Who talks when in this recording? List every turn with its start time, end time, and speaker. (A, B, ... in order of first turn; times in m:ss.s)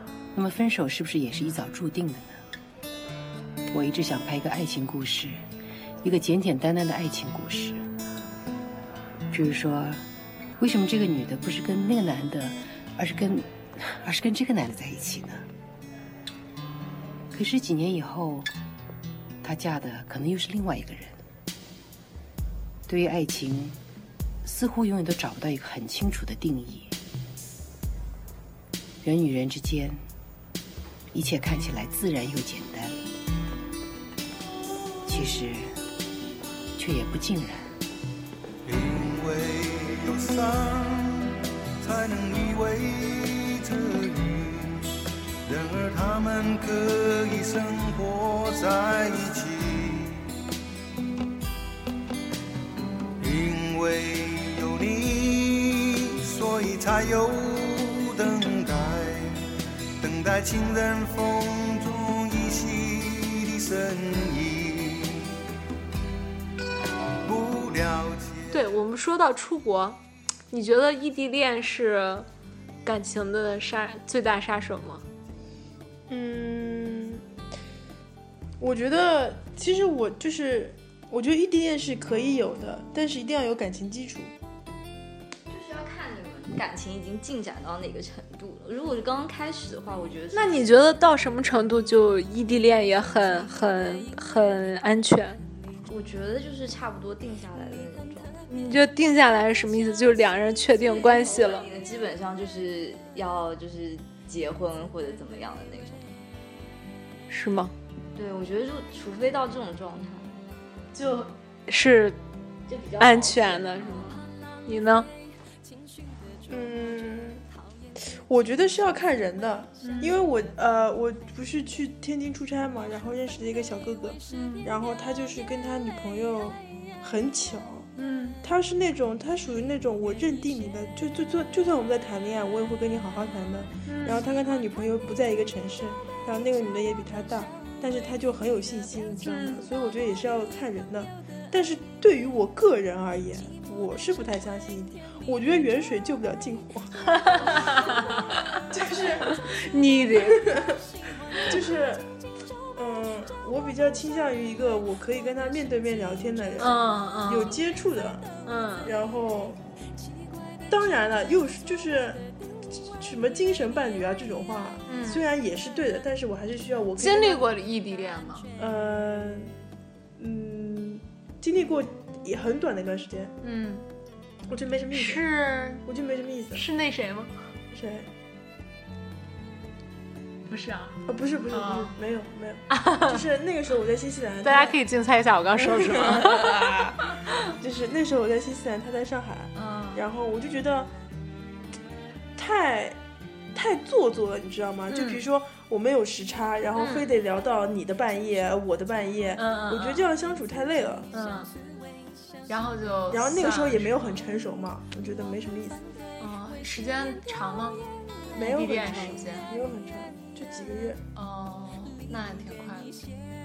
0:00.3-0:02.4 A
0:03.7-0:05.4 A
0:06.0-0:07.8 A
0:09.3-0:10.0 A
0:10.6-0:15.4 A
0:17.3-0:18.5 A
0:19.4-0:21.2 A
0:22.9-0:23.8 A
0:24.4-0:26.9 A
0:29.0-0:30.0 A
0:31.1-0:33.0 A
0:35.0-0:35.8 A
0:36.8-0:37.7 A
0:38.6-0:44.9 B
0:45.4-0:50.3 B
0:53.2-0:59.4 B
1:00.0-1:05.4 B
1:07.2-1:08.6 B
1:08.5-1:10.0 C
1:10.5-1:12.3 C
1:12.8-1:15.0 C
1:16.1-1:17.2 D
1:18.6-1:24.3 D
1:25.5-1:30.6 E
1:30.3-1:35.4 C
1:35.9-1:38.4 E
1:38.5-1:41.7 C
1:40.8-1:46.1 E
1:47.3-1:47.7 C
1:48.1-1:50.3 E
1:50.9-1:52.2 C
1:52.7-1:54.2 E
1:53.0-1:55.1 C
1:56.5-1:57.4 D
1:58.0-2:07.9 D
1:59.8-2:00.1 C
2:04.3-2:04.7 C
2:08.0-2:08.4 C
2:08.4-2:26.9 D
2:13.8-2:14.2 C
2:19.2-2:19.6 C
2:27.0-2:28.6 C
2:28.7-2:29.3 D
2:29.2-2:30.5 C
2:30.3-2:30.8 D
2:31.4-2:32.1 D
2:32.7-2:38.2 D
2:36.6-2:37.6 C
2:38.4-2:38.9 C
2:38.8-2:39.6 D
2:40.7-2:42.2 D
2:43.0-2:47.4 D
2:44.9-2:45.2 C
2:47.0-2:48.5 C
2:48.6-2:49.5 D
2:50.2-2:53.3 D
2:53.4-2:53.8 C
2:54.5-2:55.2 D
2:54.9-2:55.8 C
2:55.8-2:56.6 D
2:56.5-2:57.3 C
2:57.7-2:58.1 D
3:00.5-3:01.9 C
3:01.0-3:04.8 D
3:02.7-3:03.2 C
3:04.4-3:07.4 C
3:05.6-3:10.9 D
3:09.5-3:10.0 C
3:12.4-3:13.0 D
3:13.5-3:21.1 D
3:14.9-3:15.2 C
3:16.7-3:17.1 C
3:19.4-3:20.1 C
3:21.1-3:21.5 C
3:22.5-3:24.1 C
3:23.1-3:25.8 D
3:26.2-3:27.8 C
3:28.3-3:31.0 D
3:28.4-3:29.5 C
3:31.1-3:33.0 C